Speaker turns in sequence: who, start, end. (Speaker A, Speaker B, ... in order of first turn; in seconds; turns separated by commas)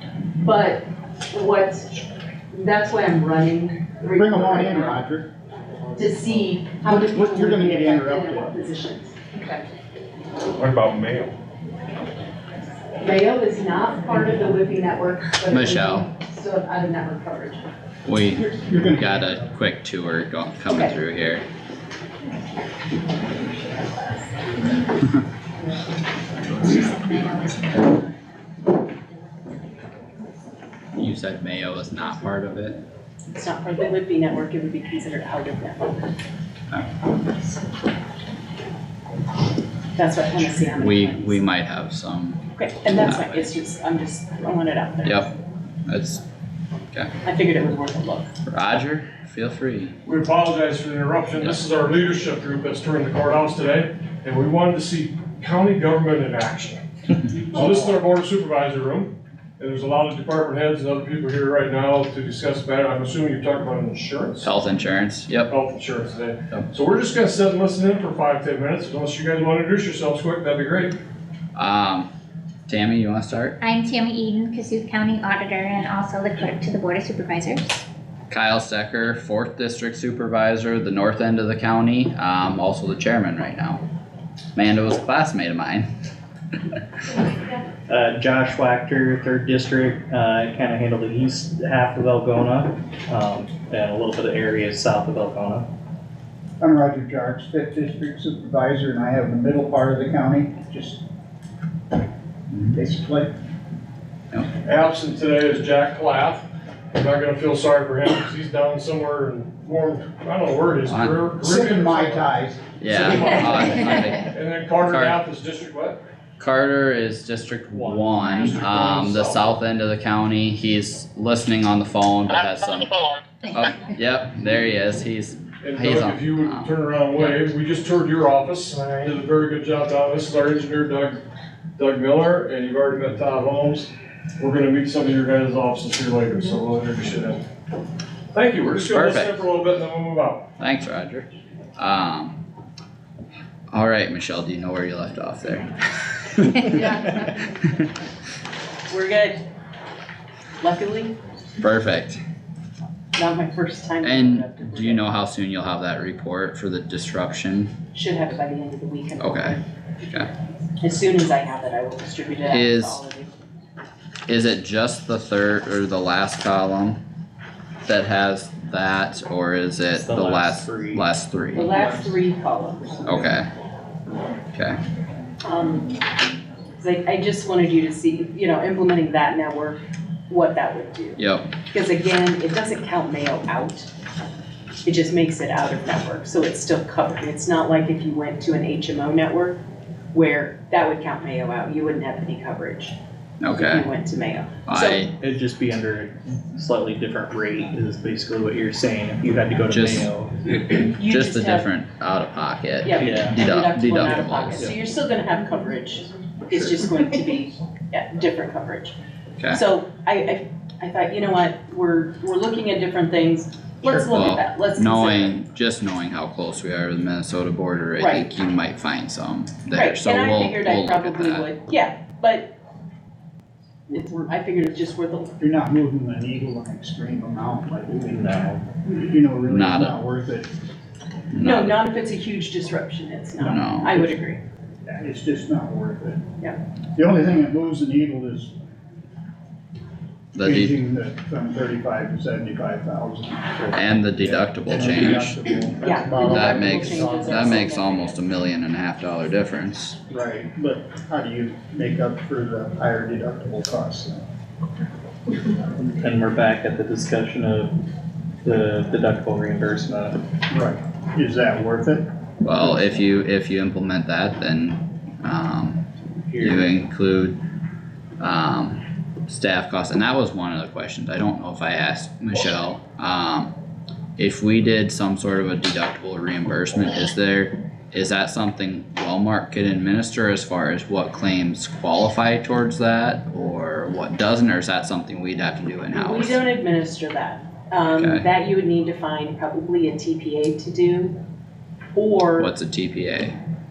Speaker A: 0.4-2.0, Speaker A: 2.5-5.0, Speaker B: 4.2-5.3, Speaker A: 6.0-9.6, Speaker B: 6.9-8.6, Speaker C: 10.6-11.3, Speaker A: 13.0-17.7, Speaker D: 15.5-16.1, Speaker D: 18.1-21.4, Speaker B: 18.3-19.5, Speaker A: 20.7-20.9, Speaker E: 26.6-27.9, Speaker D: 30.9-32.8, Speaker A: 33.3-36.0, Speaker A: 40.0-41.4, Speaker D: 40.8-42.4, Speaker A: 42.6-45.3, Speaker D: 43.0-43.5, Speaker D: 45.0-45.3, Speaker D: 45.9-46.2, Speaker A: 47.2-48.3, Speaker D: 48.5-49.9, Speaker C: 50.1-56.8, Speaker C: 57.5-64.5, Speaker D: 64.4-65.5, Speaker C: 65.5-71.0, Speaker D: 71.5-72.1, Speaker D: 72.7-73.6, Speaker E: 73.6-77.8, Speaker D: 78.3-83.8, Speaker D: 84.6-85.9, Speaker F: 87.9-95.7, Speaker B: 96.6-101.0, Speaker B: 102.6-103.3, Speaker C: 104.7-112.3, Speaker D: 110.9-111.2, Speaker B: 111.4-112.6, Speaker D: 112.8-115.2, Speaker C: 112.9-116.0, Speaker D: 116.4-123.0, Speaker C: 117.7-119.6, Speaker D: 123.5-127.5, Speaker C: 125.6-131.2, Speaker C: 131.8-137.4, Speaker C: 138.3-140.5, Speaker D: 138.8-139.4, Speaker D: 140.6-142.4, Speaker D: 143.7-145.7, Speaker D: 146.2-146.9, Speaker A: 148.9-149.4, Speaker A: 150.6-151.2, Speaker D: 151.6-152.2, Speaker A: 153.2-155.1, Speaker D: 154.0-157.7, Speaker A: 157.9-163.3, Speaker D: 159.2-159.6, Speaker D: 162.5-163.0, Speaker D: 164.3-167.0, Speaker D: 167.8-171.7, Speaker F: 169.9-171.1, Speaker A: 171.5-173.2, Speaker F: 171.8-172.1, Speaker D: 173.1-173.5, Speaker A: 175.4-175.9, Speaker A: 176.8-183.9, Speaker D: 181.2-181.5, Speaker A: 184.8-189.6, Speaker A: 190.1-193.0, Speaker D: 193.4-193.9, Speaker A: 193.5-195.1, Speaker D: 194.7-195.1, Speaker F: 195.2-200.4, Speaker D: 199.7-200.1, Speaker A: 200.6-201.7, Speaker D: 201.1-204.7, Speaker A: 202.8-209.0, Speaker F: 203.0-203.4, Speaker A: 209.5-215.4, Speaker D: 213.9-221.5, Speaker A: 218.0-218.3, Speaker A: 219.7-222.6, Speaker B: 223.9-224.3, Speaker A: 223.9-225.4, Speaker B: 225.4-230.5, Speaker F: 228.1-228.6, Speaker D: 229.5-230.0, Speaker D: 231.3-231.8, Speaker A: 231.4-234.4, Speaker B: 233.4-234.2, Speaker D: 233.4-233.9, Speaker B: 234.8-236.2, Speaker B: 236.9-238.5, Speaker D: 240.3-240.8, Speaker B: 240.4-247.6, Speaker D: 243.7-245.4, Speaker A: 245.8-248.2, Speaker D: 246.3-250.0, Speaker B: 250.1-254.2, Speaker F: 255.8-257.7, Speaker F: 258.4-260.2, Speaker B: 260.5-262.1, Speaker D: 262.4-265.8, Speaker F: 266.3-266.8, Speaker D: 266.4-267.4, Speaker D: 268.2-273.5, Speaker D: 274.2-286.4, Speaker A: 285.9-291.2, Speaker D: 287.9-288.3, Speaker A: 291.9-292.5, Speaker D: 292.4-293.4